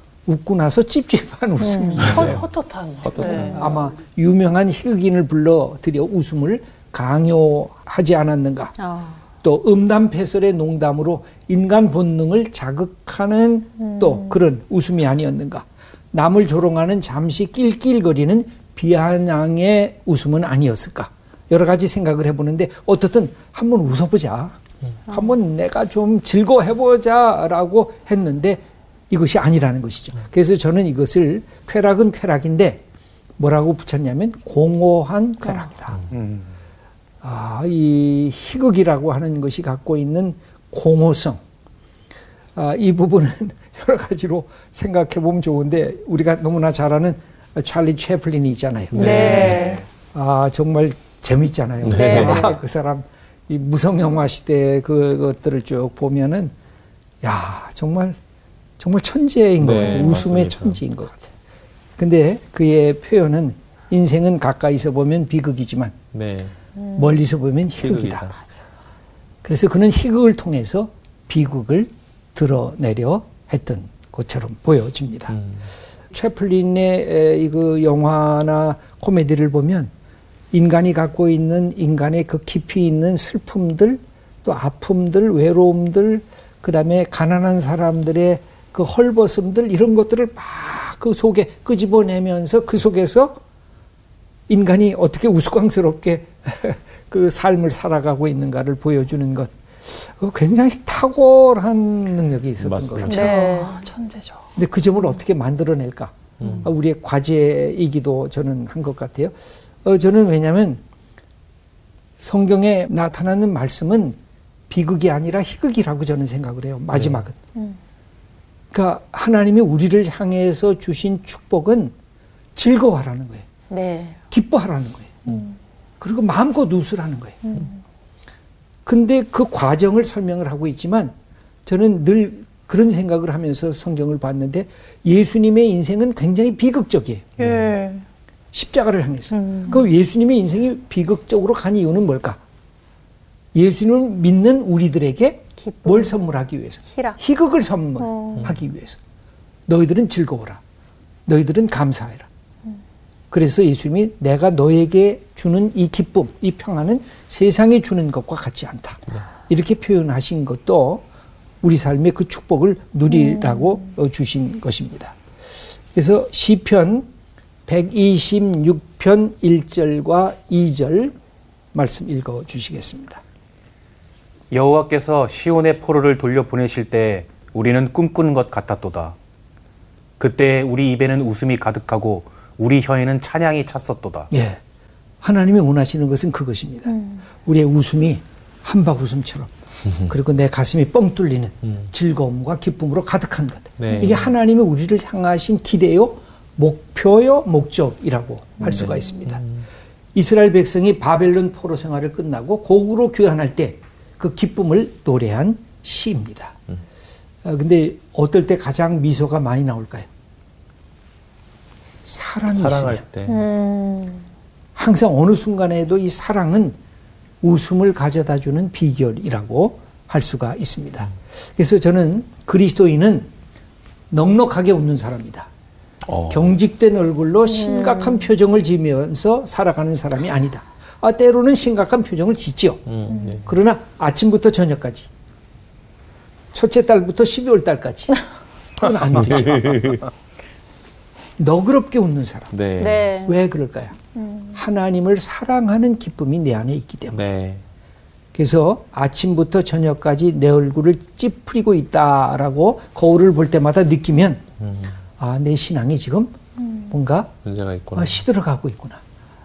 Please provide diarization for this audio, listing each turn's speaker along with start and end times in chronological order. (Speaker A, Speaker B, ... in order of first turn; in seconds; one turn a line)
Speaker A: 0.2-2.4
Speaker B: 1.6-2.2
Speaker C: 2.0-3.6
Speaker D: 2.1-2.4
Speaker D: 3.0-3.6
Speaker A: 3.3-8.7
Speaker B: 8.8-9.2
Speaker A: 9.4-32.8
Speaker B: 13.8-14.4
Speaker A: 33.4-36.0
Speaker B: 35.4-35.7
Speaker E: 36.1-36.5
Speaker A: 37.2-41.4
Speaker A: 42.5-49.6
Speaker D: 48.9-49.7
Speaker B: 49.0-49.8
Speaker C: 49.1-49.5
Speaker E: 49.5-49.8
Speaker A: 50.1-56.5
Speaker D: 51.8-52.5
Speaker B: 51.9-52.4
Speaker A: 57.2-58.2
Speaker A: 58.8-61.3
Speaker D: 59.6-60.8
Speaker A: 62.0-66.0
Speaker D: 66.1-66.6
Speaker A: 66.9-68.3
Speaker D: 67.8-68.3
Speaker A: 69.4-75.4
Speaker D: 75.3-75.7
Speaker A: 76.1-79.9
Speaker A: 80.5-93.4
Speaker A: 94.5-103.4
Speaker D: 102.6-103.3
Speaker C: 103.1-104.5
Speaker B: 103.1-103.8
Speaker A: 104.5-110.8
Speaker D: 106.4-106.7
Speaker A: 112.2-114.2
Speaker A: 114.7-117.3
Speaker A: 118.7-121.9
Speaker A: 122.5-123.5
Speaker B: 123.7-124.2
Speaker A: 124.3-125.3
Speaker A: 126.0-127.4
Speaker B: 127.5-127.7
Speaker A: 128.8-131.1
Speaker A: 131.7-137.3
Speaker C: 137.4-138.0
Speaker A: 138.5-142.4
Speaker C: 139.4-139.8
Speaker A: 143.5-149.0
Speaker B: 145.6-146.1
Speaker B: 146.9-147.2
Speaker B: 148.0-148.4
Speaker A: 149.7-150.6
Speaker A: 151.2-152.3
Speaker A: 153.3-161.0
Speaker A: 161.6-165.1
Speaker A: 165.9-167.1
Speaker A: 167.7-171.1
Speaker A: 171.7-173.2
Speaker E: 174.5-179.1
Speaker E: 180.2-184.3
Speaker A: 184.3-184.6
Speaker A: 185.2-189.5
Speaker B: 186.9-187.2
Speaker A: 190.1-199.4
Speaker D: 193.8-194.3
Speaker D: 198.6-199.6
Speaker A: 200.1-206.6
Speaker A: 207.4-210.1
Speaker A: 212.0-213.0
Speaker D: 212.5-213.4
Speaker B: 213.3-214.2
Speaker A: 214.8-216.8
Speaker A: 217.4-223.3
Speaker A: 224.1-225.5
Speaker D: 226.1-226.5
Speaker A: 226.3-232.8
Speaker B: 227.4-228.3
Speaker D: 232.8-233.5
Speaker A: 233.4-235.1
Speaker A: 236.5-238.2
Speaker A: 238.8-240.0
Speaker D: 239.1-240.0
Speaker A: 241.4-242.5
Speaker D: 242.5-243.1
Speaker B: 242.8-243.4
Speaker A: 243.2-244.0
Speaker B: 244.2-244.6
Speaker A: 244.5-247.2
Speaker D: 247.1-247.6
Speaker A: 248.3-254.4
Speaker D: 254.6-255.0
Speaker A: 255.2-256.4
Speaker A: 256.9-257.3
Speaker D: 257.4-258.2
Speaker A: 257.9-259.0